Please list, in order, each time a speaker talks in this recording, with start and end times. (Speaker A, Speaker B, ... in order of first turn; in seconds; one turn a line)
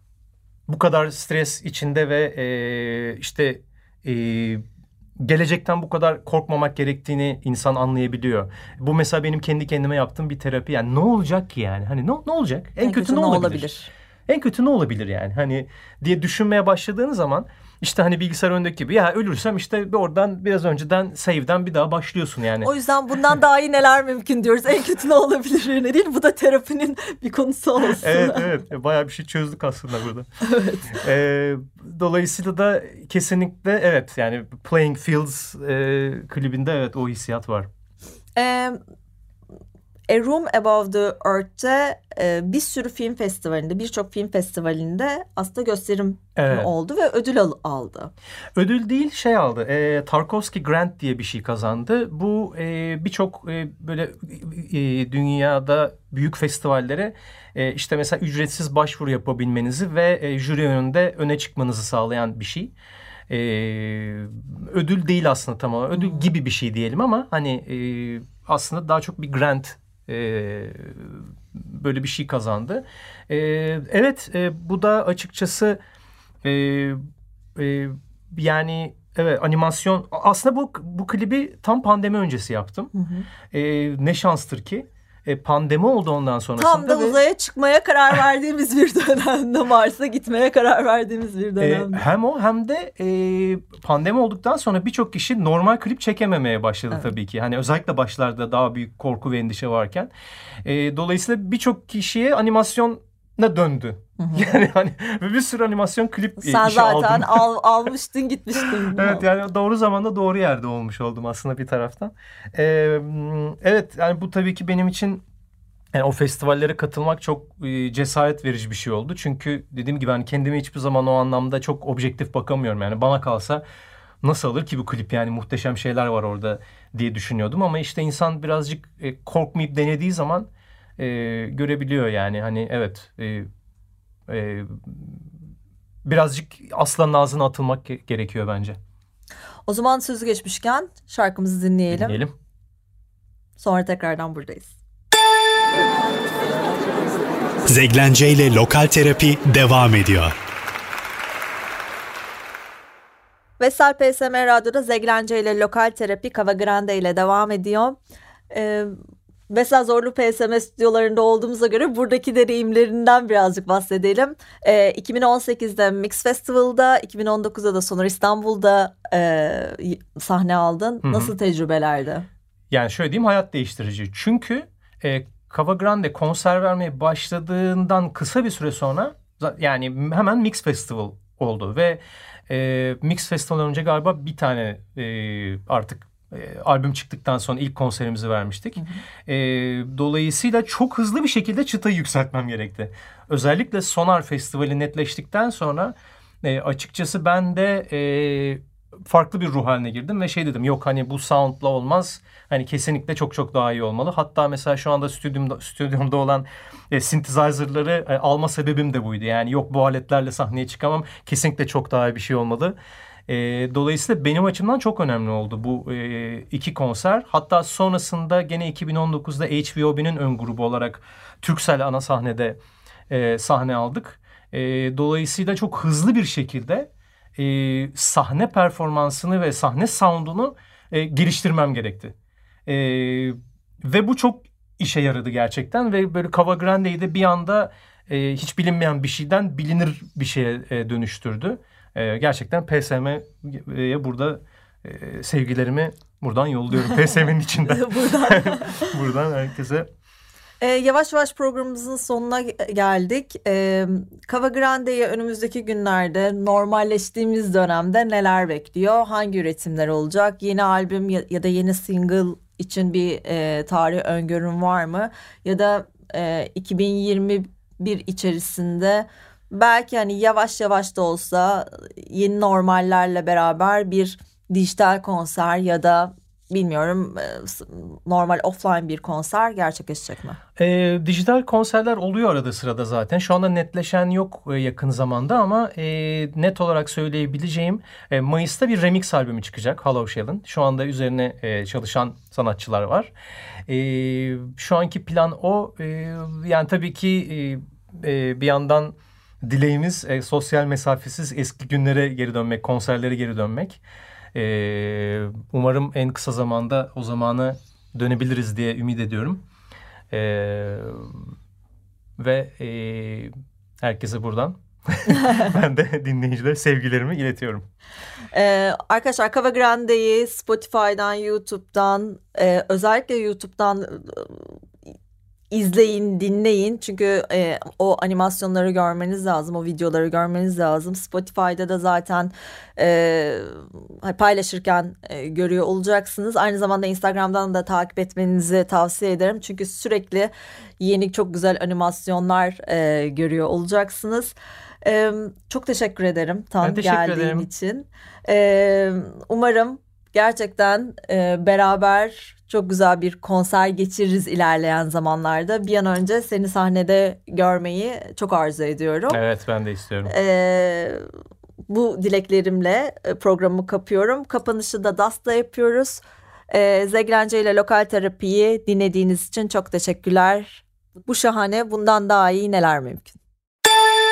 Speaker A: 0.7-4.6
Speaker A: 5.2-13.7
Speaker B: 12.8-13.9
Speaker A: 14.3-22.7
Speaker B: 22.6-28.4
Speaker A: 28.0-30.3
Speaker B: 30.4-31.0
Speaker A: 30.9-37.7
Speaker B: 38.4-38.8
Speaker B: 40.1-48.1
Speaker A: 46.4-46.7
Speaker A: 48.5-62.7
Speaker A: 63.3-75.8
Speaker B: 65.9-66.3
Speaker A: 76.4-77.0
Speaker A: 77.5-82.9
Speaker B: 82.9-83.3
Speaker A: 83.5-87.2
Speaker B: 86.6-92.0
Speaker A: 91.6-100.1
Speaker A: 100.6-107.5
Speaker B: 104.2-104.5
Speaker B: 106.4-109.3
Speaker A: 108.9-115.2
Speaker A: 115.9-123.6
Speaker A: 124.2-133.5
Speaker A: 134.3-135.2
Speaker A: 136.0-138.8
Speaker B: 139.7-142.2
Speaker A: 141.9-142.3
Speaker B: 143.6-144.8
Speaker C: 147.7-150.3
Speaker B: 153.6-158.0
Speaker B: 158.5-158.9
Speaker B: 159.5-172.3
Speaker A: 171.0-171.3
Speaker A: 172.7-212.8
Speaker A: 213.3-232.1
Speaker A: 232.7-249.9
Speaker B: 247.7-248.9
Speaker B: 250.6-280.4
Speaker A: 280.6-293.1
Speaker A: 293.7-303.8
Speaker A: 304.3-309.4
Speaker A: 310.1-311.2
Speaker A: 312.2-317.7
Speaker B: 318.3-324.6
Speaker B: 325.5-359.2
Speaker A: 346.6-347.5
Speaker A: 359.1-360.1
Speaker B: 360.1-361.0
Speaker B: 361.7-373.2